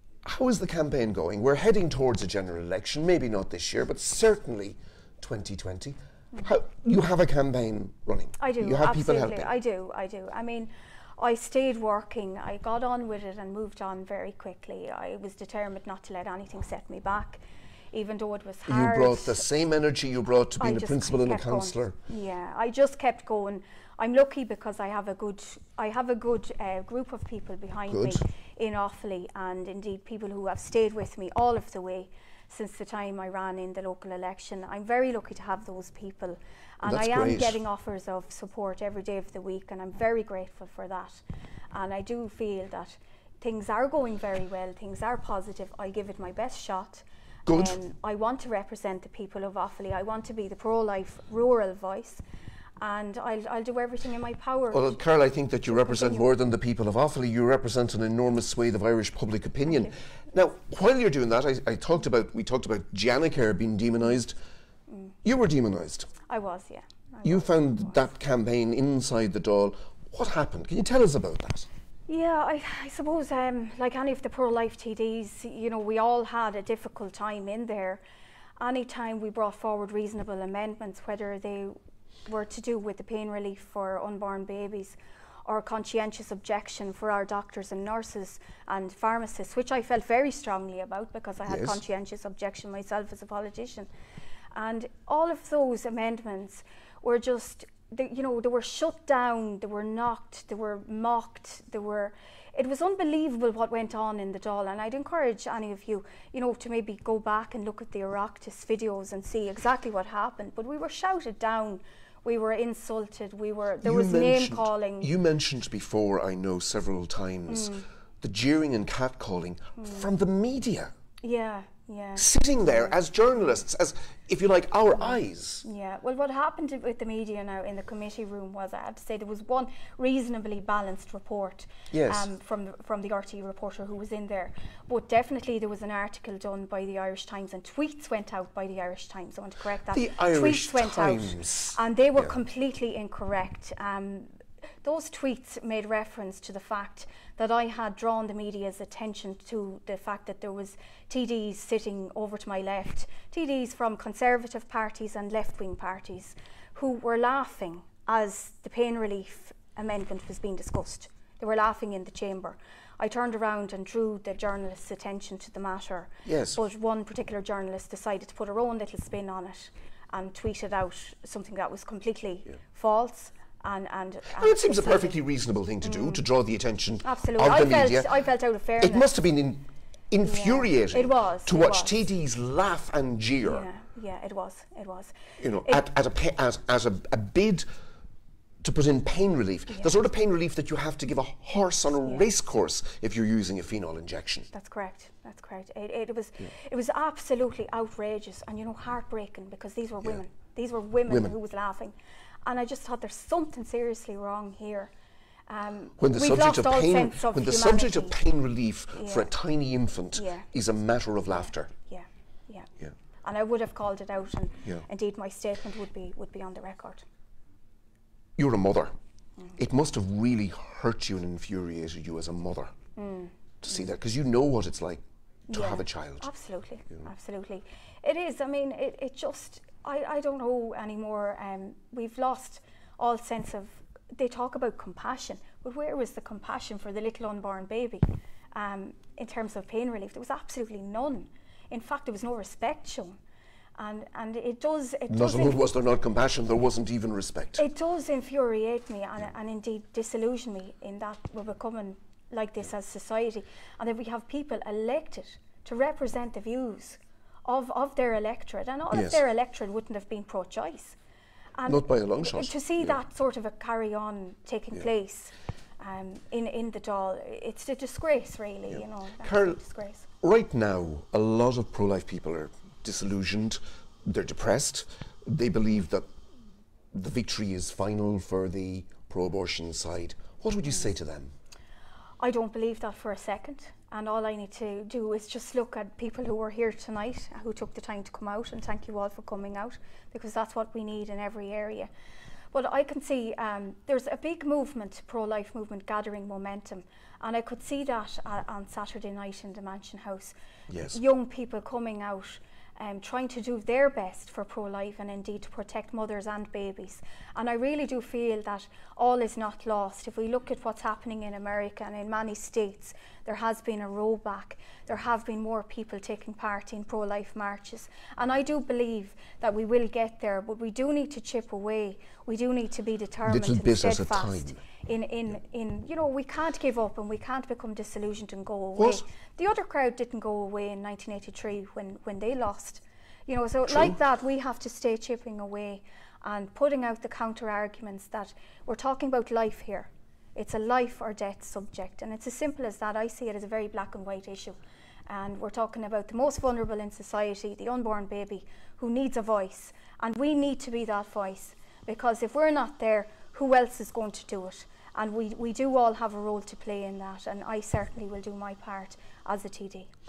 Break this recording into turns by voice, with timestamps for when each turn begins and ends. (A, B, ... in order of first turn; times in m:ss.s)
0:00.2-0:09.5 A
0:08.4-0:19.4 B
0:18.7-0:22.0 A
0:20.6-0:52.2 B
0:27.9-0:28.2 A
0:36.8-0:37.6 A
0:47.5-0:47.8 A
0:52.8-0:55.0 B
0:54.7-1:04.4 A
0:55.7-0:56.3 B
1:04.9-1:05.1 B
1:05.2-1:06.1 A
1:06.3-1:08.1 B
1:07.2-1:11.7 A
1:12.1-1:18.0 B
1:18.6-1:21.8 B
1:22.3-1:33.9 B
1:31.5-1:31.8 A
1:34.5-1:55.1 B
1:53.8-2:00.9 A
1:57.5-1:57.9 B
1:59.8-2:00.1 B
2:01.2-2:03.0 B
2:02.2-2:05.6 A
2:05.0-2:55.2 B
2:11.9-2:12.3 A
2:19.9-2:22.3 A
2:46.2-2:46.6 A
2:54.3-2:58.1 A
2:55.8-2:56.2 B
2:57.0-2:59.1 B
2:58.8-3:03.7 A
3:00.2-3:02.0 B
3:03.4-3:05.8 B
3:05.4-3:07.7 A
3:08.6-3:14.5 A
3:09.7-3:10.0 B
3:12.0-3:12.3 B
3:14.5-3:22.0 B
3:21.1-3:21.4 A
3:22.5-3:24.9 B
3:25.5-3:28.2 B
3:26.0-3:31.7 A
3:29.0-3:29.3 B
3:30.1-3:30.5 B
3:31.3-3:32.7 B
3:33.2-3:37.0 B
3:38.4-3:38.9 A
3:39.6-3:42.7 A
3:43.0-3:43.3 B
3:43.6-3:46.3 A
3:45.5-4:03.2 B
4:03.8-4:05.6 B
4:05.1-4:07.6 A
4:07.6-4:21.0 B
4:18.9-4:19.2 A
4:21.6-4:30.1 B
4:21.7-4:23.0 A
4:28.7-4:29.6 A
4:30.2-4:36.1 A
4:36.9-4:41.3 A
4:42.2-4:51.9 B
4:52.5-5:59.9 B
5:00.7-5:01.0 A
5:23.2-5:24.6 A
5:28.8-5:29.0 A
5:33.7-5:34.0 A